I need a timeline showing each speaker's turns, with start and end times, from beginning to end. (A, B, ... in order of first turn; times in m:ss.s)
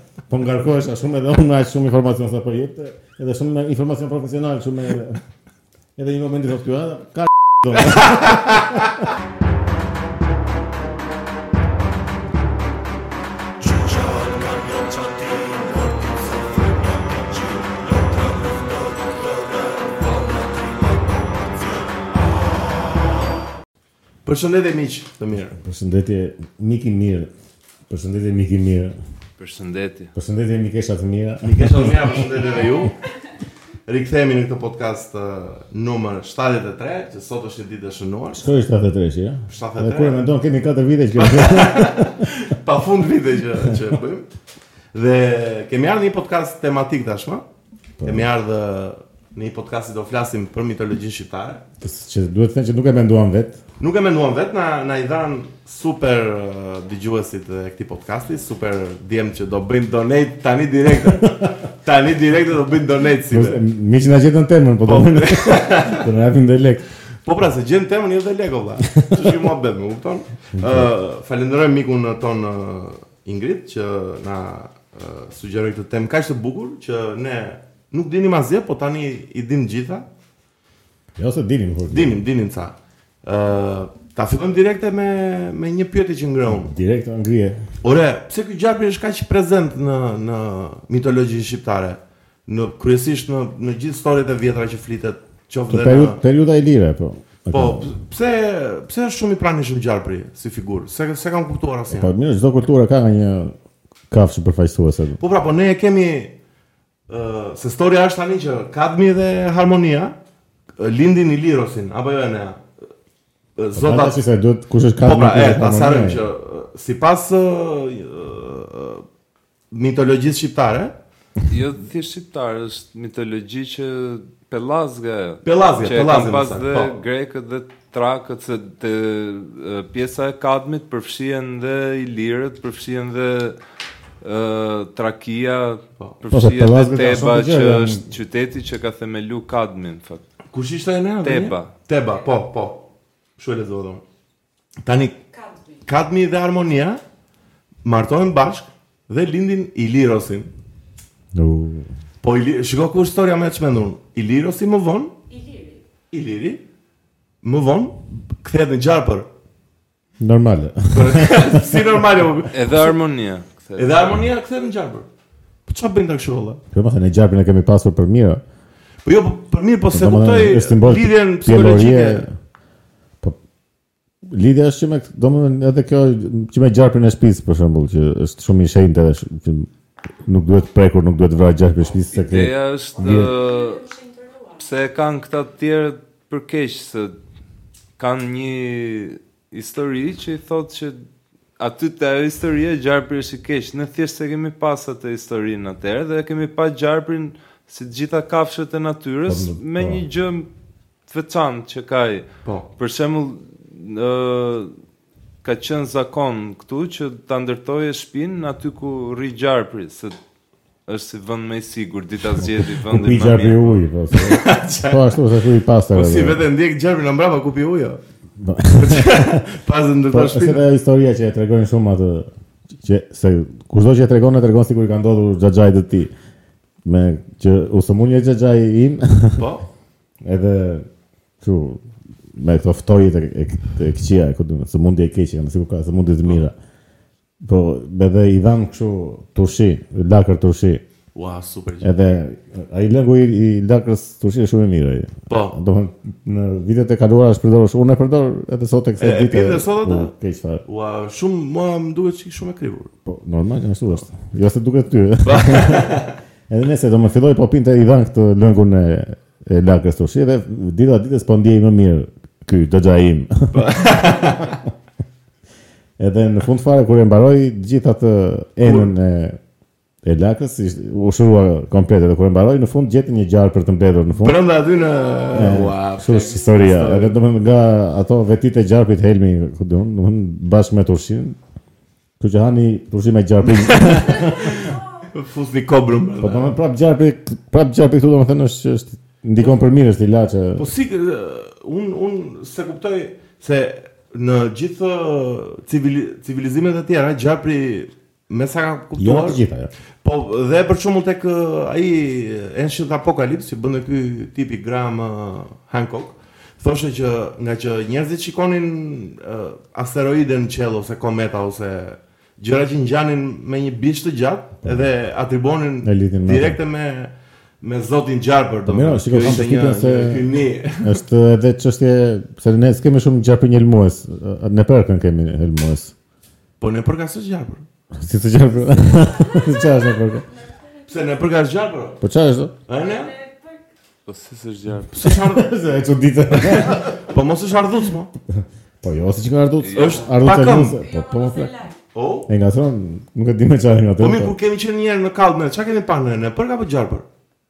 0:00.3-0:05.2 A
0:06.0-0:09.0 A
0:07.9-0:08.5 B
0:13.6-0:21.3 B
0:24.2-0:25.6 B
0:25.5-0:27.3 A
0:27.9-0:29.0 A
0:29.4-0:30.1 C
0:30.2-0:32.2 A
0:31.4-0:33.0 B
0:33.9-0:38.5 B
0:38.3-0:42.3 A
0:39.5-0:40.2 B
0:41.1-0:44.3 B
0:44.9-0:47.4 B
0:48.0-0:48.3 A
0:48.0-0:51.6 B
0:51.8-0:53.6 A
0:53.8-1:03.6 B
1:03.3-1:06.8 A
1:04.8-1:06.1 B
1:07.2-1:20.1 B
1:08.9-1:09.2 A
1:10.6-1:10.8 A
1:21.2-1:22.2 A
1:21.9-1:26.7 B
1:26.5-1:27.6 A
1:27.8-1:36.2 B
1:35.7-1:37.9 A
1:37.5-1:42.1 B
1:41.9-1:43.5 A
1:44.1-1:45.2 A
1:45.2-1:46.3 B
1:47.1-1:50.2 B
1:50.8-1:52.6 B
1:53.6-1:54.2 B
1:53.7-1:56.2 A
1:55.0-1:59.0 B
1:59.7-2:01.0 B
2:01.5-2:13.6 C
2:05.4-2:07.0 B
2:14.2-2:20.2 C
2:16.3-2:18.1 A
2:20.5-2:22.8 B
2:21.2-2:21.7 C
2:23.4-2:24.0 B
2:24.8-2:25.2 B
2:25.3-2:25.8 D
2:25.8-2:27.0 B
2:27.8-2:30.5 B
2:31.3-2:31.9 A
2:32.2-2:35.1 B
2:35.3-2:35.8 D
2:36.1-2:36.6 B
2:37.4-2:39.3 B
2:40.2-2:41.9 A
2:40.9-2:42.9 B
2:42.5-2:44.1 C
2:43.8-2:45.0 B
2:45.6-2:46.6 B
2:46.7-2:48.4 A
2:49.0-2:52.3 B
2:49.9-2:52.3 A
2:54.3-2:59.7 A
3:00.2-3:03.3 A
3:02.1-3:03.8 C
3:03.0-3:04.6 D
3:04.6-3:07.1 C
3:08.0-3:11.0 C
3:11.6-3:20.5 C
3:19.3-3:20.0 A
3:21.1-3:22.2 C
3:22.8-3:24.7 C
3:25.4-3:30.2 C
3:30.9-3:33.8 C
3:32.4-3:36.4 A
3:34.1-3:35.2 B
3:35.9-3:38.0 B
3:38.4-3:39.4 A
3:38.7-3:40.6 B
3:40.1-3:42.3 A
3:42.8-3:46.1 A
3:46.8-3:49.4 A
3:49.4-3:49.6 B
3:50.2-3:50.9 A
3:51.4-3:51.8 A
3:52.3-3:56.5 A
3:57.4-4:00.8 A
4:01.1-4:01.9 B
4:01.8-4:10.6 A
4:05.3-4:05.6 B
4:09.0-4:10.1 B
4:10.6-4:12.9 B
4:13.0-4:23.7 A
4:15.2-4:16.2 B
4:23.5-4:24.6 B
4:26.0-4:29.4 A
4:28.6-4:28.9 B
4:30.0-4:34.4 A
4:34.1-4:37.2 B
4:34.6-4:35.6 D
4:35.3-4:41.4 A
4:42.2-4:44.6 A
4:43.4-4:46.5 B
4:44.0-4:44.8 D
4:46.2-4:50.6 A
4:50.6-4:59.4 B
4:59.0-4:59.7 A
5:00.0-5:21.0 B
5:15.8-5:16.6 A
5:18.6-5:20.3 A
5:20.8-5:25.9 A
5:26.6-5:27.6 B
5:27.9-5:30.2 A
5:28.7-5:31.2 D
5:30.9-5:32.0 B
5:32.0-5:32.5 A
5:32.7-5:33.1 B
5:32.8-5:33.6 D
5:34.1-5:34.9 C
5:34.9-5:35.6 B
5:35.0-5:37.0 A
5:36.3-5:38.1 B
5:38.3-5:41.6 A
5:39.6-5:40.1 C
5:39.7-5:40.8 B
5:40.8-5:41.8 D
5:41.9-5:42.3 B
5:42.3-5:44.3 A
5:44.0-5:47.0 B